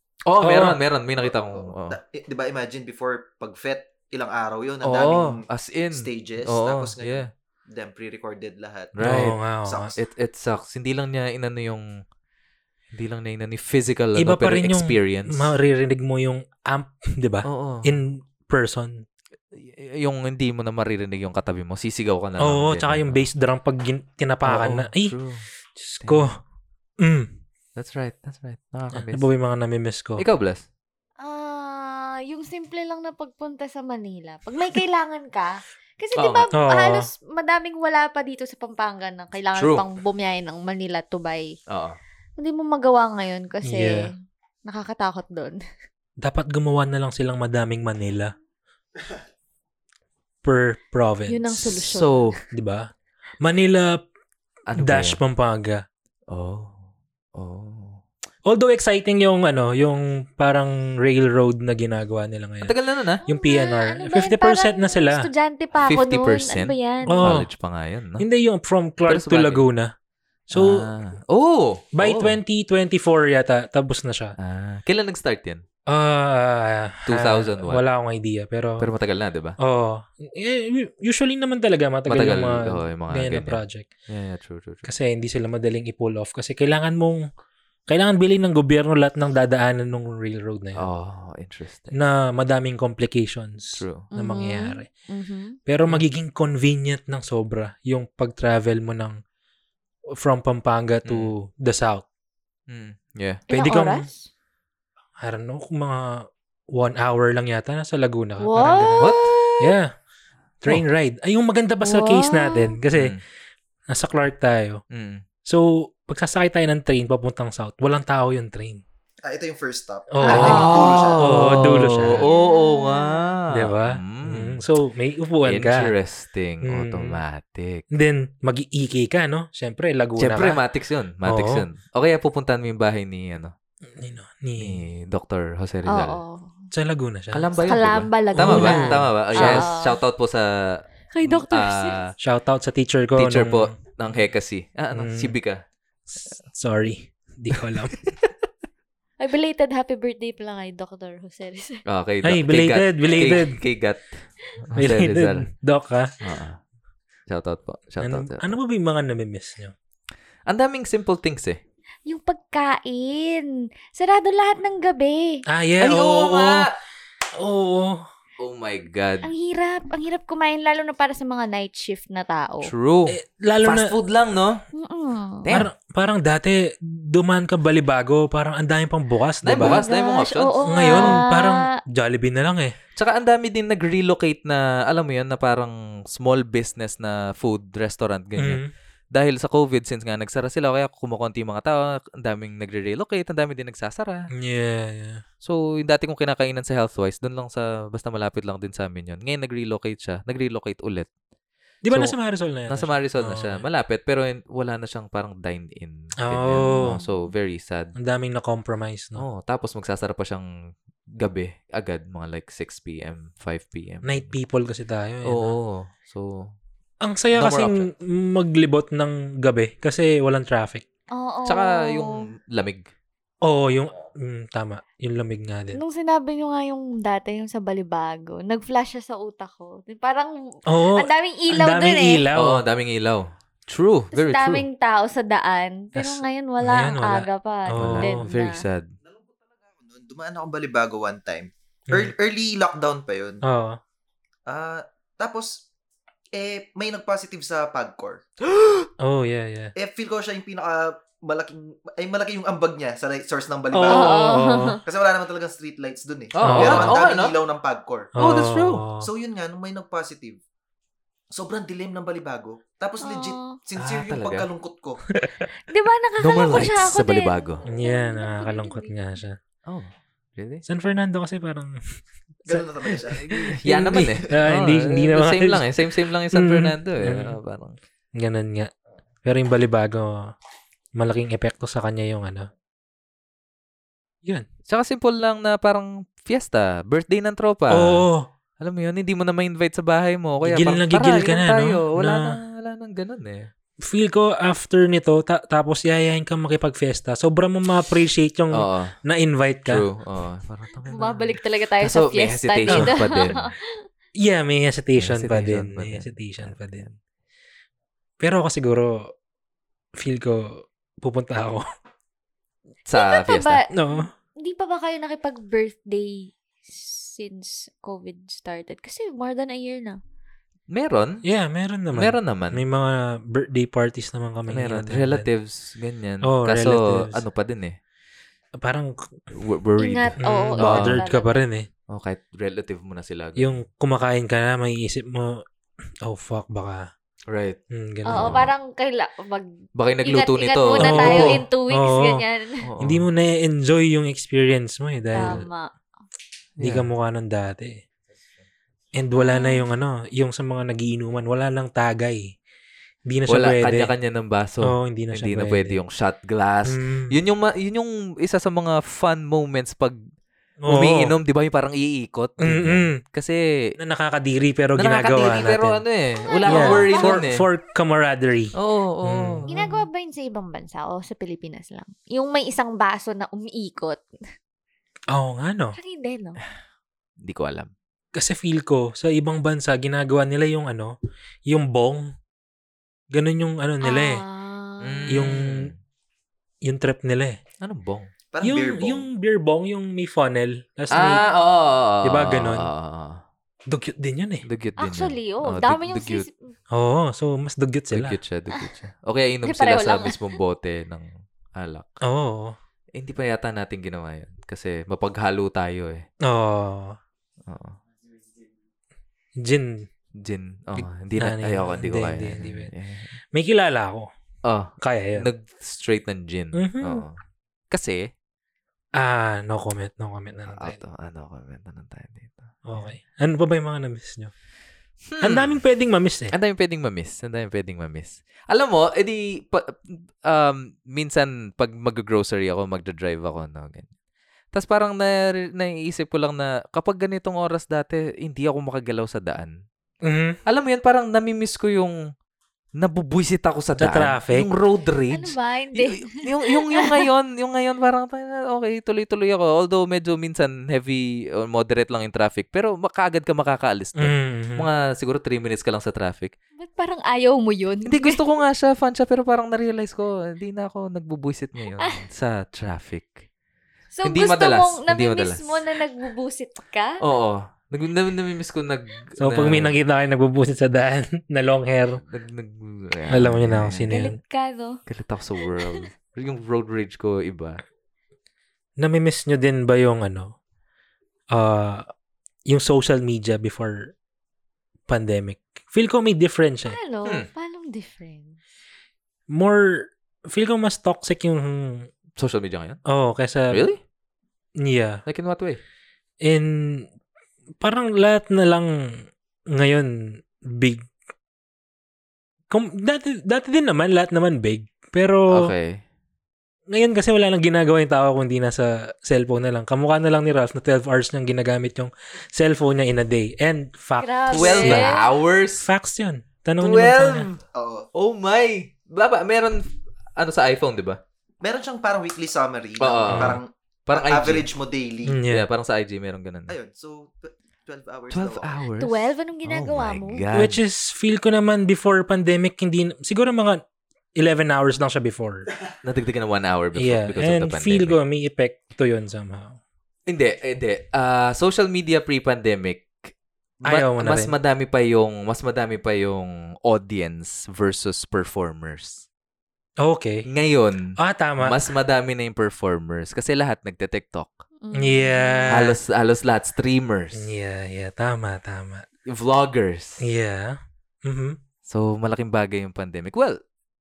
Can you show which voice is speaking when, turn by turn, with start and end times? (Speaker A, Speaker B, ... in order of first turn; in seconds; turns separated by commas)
Speaker A: 0.2-2.0, Speaker B: 0.4-0.8, Speaker C: 1.3-9.9, Speaker A: 4.8-7.3, Speaker A: 8.9-9.3, Speaker B: 9.0-9.9, Speaker A: 10.0-11.8, Speaker A: 12.9-15.5, Speaker B: 14.2-19.0, Speaker A: 17.4-17.9, Speaker A: 19.5-23.2, Speaker B: 22.4-25.1, Speaker A: 24.4-25.4, Speaker B: 25.8-26.4, Speaker A: 26.0-26.3, Speaker B: 27.0-27.3, Speaker A: 27.8-29.3, Speaker B: 28.9-30.2, Speaker A: 30.2-30.6, Speaker D: 31.2-41.5, Speaker A: 36.1-36.5, Speaker B: 36.5-37.1, Speaker A: 39.5-39.8, Speaker A: 41.7-42.0, Speaker D: 42.4-44.1, Speaker B: 43.6-44.1, Speaker D: 44.6-45.6, Speaker B: 46.2-48.3, Speaker B: 50.4-51.8, Speaker D: 51.3-52.3, Speaker A: 51.8-52.4, Speaker B: 52.5-52.9, Speaker B: 53.4-54.0, Speaker A: 54.7-55.2, Speaker B: 54.8-55.8, Speaker A: 56.3-58.0, Speaker B: 58.5-62.7, Speaker A: 62.6-63.2, Speaker B: 63.2-65.3, Speaker D: 63.2-67.4, Speaker A: 65.8-68.2, Speaker B: 67.1-67.5, Speaker B: 68.2-69.9, Speaker A: 69.1-69.6, Speaker B: 70.5-70.8, Speaker A: 70.5-72.4, Speaker B: 72.0-74.3, Speaker A: 74.4-75.6, Speaker B: 75.9-78.9, Speaker A: 77.1-77.8, Speaker A: 78.8-79.6, Speaker B: 79.6-83.9, Speaker A: 82.1-84.9, Speaker B: 84.8-87.2, Speaker B: 87.9-90.8, Speaker A: 90.8-92.0, Speaker B: 91.9-94.9, Speaker A: 93.7-94.1, Speaker D: 94.1-95.6, Speaker B: 95.7-99.2, Speaker B: 100.2-102.0, Speaker A: 101.0-101.3, Speaker A: 102.7-103.4, Speaker D: 103.5-104.3, Speaker B: 103.5-104.1, Speaker B: 105.2-109.9, Speaker D: 108.4-109.6, Speaker A: 109.0-109.4, Speaker B: 110.6-113.2, Speaker D: 111.8-112.8, Speaker A: 112.9-113.2, Speaker B: 113.9-114.8, Speaker A: 114.9-115.2, Speaker B: 115.5-118.8, Speaker C: 119.2-121.6, Speaker B: 120.1-122.2, Speaker D: 120.2-121.1, Speaker A: 120.2-124.6, Speaker D: 122.2-123.3, Speaker B: 123.5-125.9, Speaker A: 125.4-127.8, Speaker B: 126.6-127.2, Speaker B: 127.9-130.6, Speaker A: 130.2-133.5, Speaker B: 131.2-131.7, Speaker B: 134.0-134.8, Speaker A: 134.6-136.2, Speaker D: 135.9-136.6, Speaker B: 136.7-137.5, Speaker A: 137.3-142.1, Speaker D: 137.6-140.0, Speaker B: 138.3-139.7, Speaker D: 141.1-142.0, Speaker B: 142.2-143.7, Speaker A: 143.2-145.6, Speaker B: 144.9-145.3, Speaker B: 146.5-147.9, Speaker A: 147.6-148.3, Speaker D: 149.2-151.8, Speaker A: 151.8-155.4, Speaker B: 152.2-153.6, Speaker B: 154.8-156.1, Speaker A: 156.2-156.6, Speaker A: 157.3-158.5, Speaker B: 158.0-159.7, Speaker A: 160.5-161.6, Speaker D: 162.1-165.4, Speaker B: 165.5-166.7, Speaker A: 165.8-166.7, Speaker B: 167.3-168.1, Speaker A: 168.4-169.3, Speaker D: 169.2-172.7, Speaker A: 172.6-174.6, Speaker B: 173.1-173.9, Speaker D: 174.8-175.5, Speaker B: 175.5-179.8, Speaker A: 179.4-181.2, Speaker D: 179.6-181.7, Speaker B: 180.7-182.7, Speaker A: 182.9-188.6, Speaker B: 188.4-188.7, Speaker A: 189.1-194.3, Speaker B: 194.3-195.2, Speaker A: 195.4-201.1, Speaker B: 201.8-203.6, Speaker A: 202.7-207.9, Speaker B: 206.2-207.0, Speaker D: 206.6-207.1, Speaker B: 208.0-209.2, Speaker A: 209.2-210.5, Speaker A: 211.2-214.3, Speaker B: 214.0-215.6, Speaker A: 215.2-216.5, Speaker B: 217.0-220.8, Speaker A: 217.3-217.9, Speaker D: 221.1-222.2, Speaker A: 221.4-222.9, Speaker B: 223.4-225.8, Speaker D: 225.7-232.3, Speaker B: 230.7-232.6, Speaker A: 232.3-234.6, Speaker D: 234.1-238.6, Speaker B: 235.9-238.2, Speaker A: 237.7-238.9, Speaker C: 239.1-243.4, Speaker B: 243.4-243.8, Speaker C: 244.5-245.7, Speaker C: 246.3-248.2, Speaker A: 248.4-248.9, Speaker B: 249.0-249.7, Speaker C: 249.7-254.2, Speaker B: 253.7-254.8, Speaker D: 253.9-254.8, Speaker C: 254.8-258.1, Speaker A: 256.3-257.4, Speaker B: 256.4-257.1, Speaker B: 258.1-259.1, Speaker A: 258.2-258.8, Speaker C: 259.0-260.4, Speaker C: 261.3-265.0, Speaker D: 263.0-263.6, Speaker A: 263.8-264.5, Speaker B: 265.1-265.5, Speaker D: 265.6-268.9, Speaker A: 266.2-267.6, Speaker B: 267.6-269.4, Speaker A: 269.7-270.6, Speaker B: 270.6-271.8, Speaker C: 272.4-274.1, Speaker B: 272.4-275.7, Speaker A: 273.1-277.8, Speaker B: 276.3-277.4, Speaker B: 278.1-278.7, Speaker B: 279.2-280.3, Speaker B: 281.0-282.5, Speaker A: 284.7-288.0, Speaker B: 287.7-288.3, Speaker A: 288.6-293.5, Speaker B: 290.4-292.4, Speaker B: 293.8-299.8, Speaker A: 298.5-298.9, Speaker A: 299.7-303.5, Speaker D: 300.9-303.8, Speaker B: 302.7-303.0, Speaker B: 304.1-306.9, Speaker A: 305.0-306.9, Speaker B: 308.2-309.1, Speaker B: 310.0-311.6, Speaker A: 312.9-313.6, Speaker D: 312.9-320.0, Speaker B: 313.7-314.1, Speaker A: 320.7-321.2, Speaker B: 321.2-325.3, Speaker A: 321.9-322.6, Speaker A: 324.5-327.8, Speaker B: 326.2-327.2, Speaker B: 328.6-329.1, Speaker A: 329.3-331.0, Speaker D: 329.8-331.3, Speaker B: 330.2-331.7, Speaker A: 331.9-333.6, Speaker B: 333.4-335.4, Speaker B: 336.0-336.9, Speaker A: 337.3-337.6, Speaker B: 337.7-338.5, Speaker D: 338.0-339.5, Speaker A: 338.1-338.5, Speaker A: 339.8-341.4, Speaker D: 340.0-342.6, Speaker B: 340.8-342.2, Speaker A: 342.6-343.1, Speaker B: 342.8-345.4, Speaker D: 345.1-345.7, Speaker A: 345.2-345.4, Speaker A: 346.6-346.9, Speaker B: 346.6-347.8, Speaker B: 348.9-352.3, Speaker D: 349.2-349.6, Speaker B: 353.1-353.9, Speaker A: 353.3-360.0, Speaker B: 354.6-355.8, Speaker B: 356.6-357.1, Speaker B: 360.6-361.1, Speaker A: 360.7-363.4, Speaker B: 362.4-363.0, Speaker B: 363.8-365.8, Speaker A: 364.8-367.4, Speaker D: 366.2-367.2, Speaker B: 366.5-369.5, Speaker A: 368.5-369.7, Speaker D: 369.5-374.0, Speaker B: 375.1-375.8, Speaker D: 375.7-376.4, Speaker A: 377.2-377.7, Speaker B: 378.1-380.9, Speaker B: 381.5-382.1, Speaker B: 383.1-384.2, Speaker D: 383.8-385.2, Speaker A: 384.8-385.7, Speaker B: 385.1-385.7, Speaker B: 386.6-387.4, Speaker A: 387.6-388.1, Speaker C: 388.3-389.1, Speaker B: 388.4-391.2, Speaker A: 390.9-393.2, Speaker B: 392.0-392.7, Speaker B: 393.7-394.4, Speaker A: 394.4-396.3, Speaker D: 394.8-396.3, Speaker B: 396.7-398.2, Speaker A: 397.9-401.9, Speaker D: 399.4-400.3, Speaker B: 402.0-402.6, Speaker A: 402.9-406.1, Speaker B: 406.2-407.0, Speaker A: 407.5-407.8, Speaker B: 409.4-409.9, Speaker A: 410.2-413.1, Speaker B: 410.8-412.7, Speaker B: 413.3-414.1, Speaker A: 414.4-417.2, Speaker B: 414.8-415.3, Speaker B: 416.5-417.0, Speaker A: 417.7-418.1, Speaker B: 418.9-420.8, Speaker A: 420.5-422.8, Speaker B: 422.6-424.3, Speaker A: 425.1-425.6, Speaker B: 425.2-426.3, Speaker A: 426.3-433.9, Speaker A: 434.5-439.5, Speaker B: 440.0-440.4, Speaker A: 440.4-441.9, Speaker A: 442.8-456.3, Speaker B: 443.8-444.5, Speaker D: 445.1-447.0, Speaker B: 454.0-454.7, Speaker D: 456.6-458.2, Speaker A: 457.9-463.2, Speaker D: 463.9-467.0, Speaker A: 464.0-465.7, Speaker A: 467.0-469.7, Speaker B: 469.2-472.0, Speaker A: 472.1-473.9, Speaker B: 473.1-474.2, Speaker D: 473.9-474.8, Speaker A: 474.9-477.6, Speaker D: 475.5-475.8, Speaker B: 478.8-480.3, Speaker B: 481.3-481.9, Speaker B: 482.5-483.9, Speaker B: 484.9-486.8, Speaker D: 486.6-488.4, Speaker B: 489.3-491.9, Speaker A: 492.2-492.8, Speaker B: 492.9-493.7, Speaker A: 493.5-493.8, Speaker B: 494.6-495.0, Speaker A: 495.1-495.6, Speaker B: 496.2-496.9, Speaker B: 497.6-500.9, Speaker B: 502.5-505.5, Speaker A: 505.3-505.8, Speaker B: 506.7-514.9, Speaker D: 514.0-515.0, Speaker A: 514.3-515.7, Speaker B: 515.6-517.3, Speaker A: 516.6-517.4, Speaker C: 517.5-517.9, Speaker A: 517.9-519.6, Speaker A: 520.1-521.0, Speaker C: 521.4-525.2, Speaker A: 522.8-524.5, Speaker B: 523.1-523.4, Speaker B: 525.0-525.5, Speaker A: 525.3-526.5, Speaker C: 526.5-528.5, Speaker A: 528.1-530.6, Speaker D: 528.8-530.2, Speaker B: 530.3-533.6, Speaker B: 534.2-535.5, Speaker A: 535.8-538.0, Speaker B: 536.8-539.6, Speaker A: 540.1-543.1, Speaker B: 543.6-544.3, Speaker A: 543.6-549.0, Speaker B: 549.8-550.2, Speaker A: 550.3-554.4, Speaker B: 551.0-551.6, Speaker D: 554.6-555.6, Speaker B: 554.7-555.8, Speaker A: 555.5-557.3, Speaker B: 557.1-558.9, Speaker A: 559.0-560.0, Speaker B: 560.0-561.4, Speaker A: 561.6-563.4